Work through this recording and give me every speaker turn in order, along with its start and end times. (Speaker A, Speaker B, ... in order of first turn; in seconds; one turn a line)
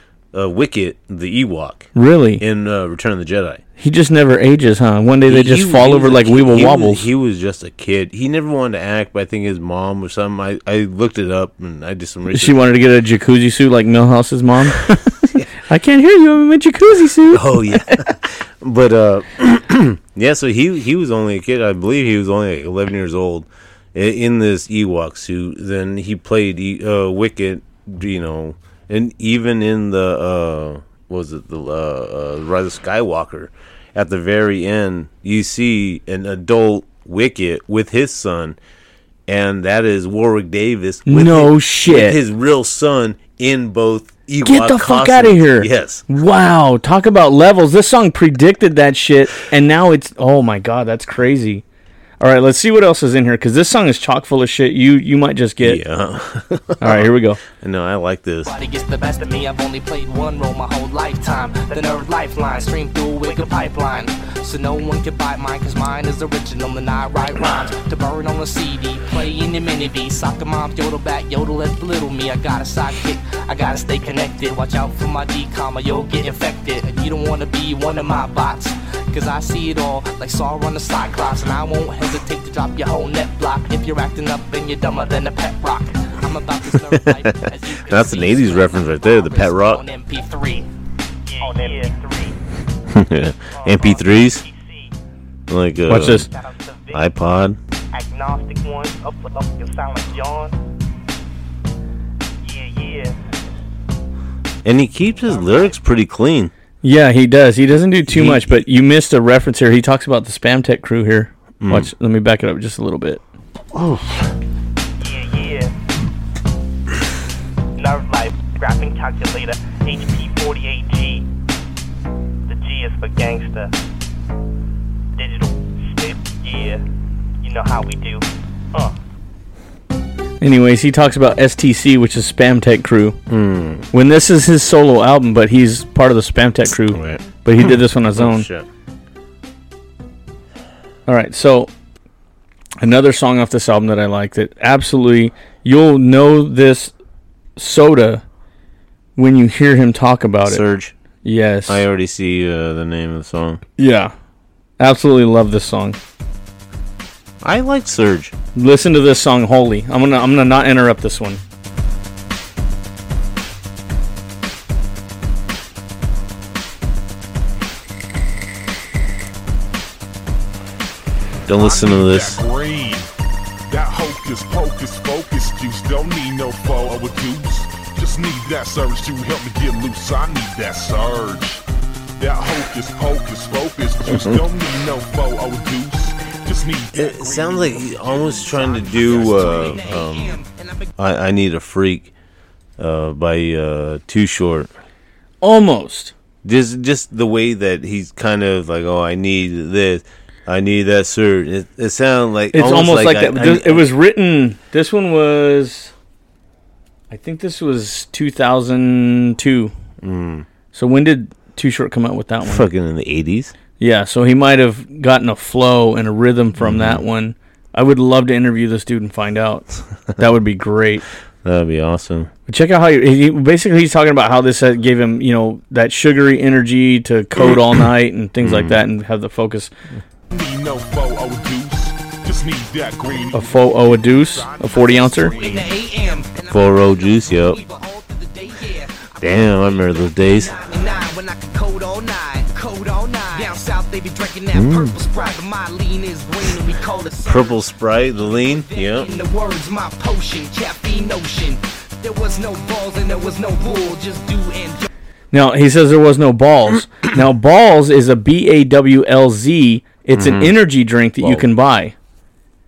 Speaker A: 0.3-3.6
Speaker B: 1.9-2.4
Speaker B: 3.8-7.0
Speaker A: 5.2-12.6
Speaker B: 12.3-18.0
Speaker A: 17.3-38.6
Speaker A: 39.3-46.0
Speaker B: 41.1-42.2
Speaker B: 44.4-51.6
Speaker B: 52.2-55.8
Speaker A: 55.6-58.5
Speaker B: 56.8-57.4
Speaker C: 58.4-90.7
Speaker A: 86.8-89.8
Speaker D: 91.2-92.3
Speaker C: 91.4-91.9
Speaker A: 92.9-94.4
Speaker D: 93.5-94.9
Speaker A: 95.5-96.3
Speaker B: 95.9-96.3
Speaker D: 96.3-97.0
Speaker A: 96.9-97.6
Speaker D: 97.9-100.5
Speaker D: 102.4-103.2
Speaker A: 104.6-106.5
Speaker B: 106.8-113.2
Speaker A: 108.1-108.5
Speaker A: 111.6-111.9
Speaker A: 113.7-114.2
Speaker D: 115.0-115.7
Speaker D: 117.8-121.2
Speaker D: 122.5-123.7
Speaker D: 125.1-126.8
Speaker D: 127.4-128.9
Speaker B: 130.4-133.2
Speaker A: 133.3-133.9
Speaker B: 133.9-138.5
Speaker A: 136.9-138.7
Speaker B: 141.1-141.7
Speaker B: 142.8-146.9
Speaker B: 147.6-148.2
Speaker B: 149.2-150.6
Speaker A: 150.4-150.9
Speaker B: 151.2-151.8
Speaker A: 151.7-153.6
Speaker B: 153.8-154.1
Speaker B: 154.8-156.0
Speaker A: 157.4-158.3
Speaker B: 158.5-161.4
Speaker A: 171.4-172.4
Speaker E: 171.6-173.1
Speaker E: 173.7-181.6
Speaker E: 182.2-190.0
Speaker A: 184.1-184.4
Speaker A: 186.9-190.4
Speaker C: 188.8-190.9
Speaker A: 191.0-192.1
Speaker A: 192.8-194.7
Speaker B: 195.4-196.1
Speaker A: 196.4-203.9
Speaker B: 202.5-205.9
Speaker B: 207.1-209.7
Speaker A: 210.0-210.5
Speaker B: 210.7-212.7
Speaker A: 212.4-213.5
Speaker B: 213.8-221.1
Speaker A: 216.6-217.0
Speaker A: 221.4-222.3
Speaker B: 222.5-229.7
Speaker A: 228.4-228.8
Speaker E: 230.3-235.8
Speaker B: 233.3-235.3
Speaker C: 235.2-254.9
Speaker A: 236.5-237.6
Speaker A: 239.2-240.6
Speaker A: 244.5-244.9
Speaker A: 247.2-249.1
Speaker B: 255.3-261.9
Speaker A: 260.1-260.5
Speaker A: 261.2-261.5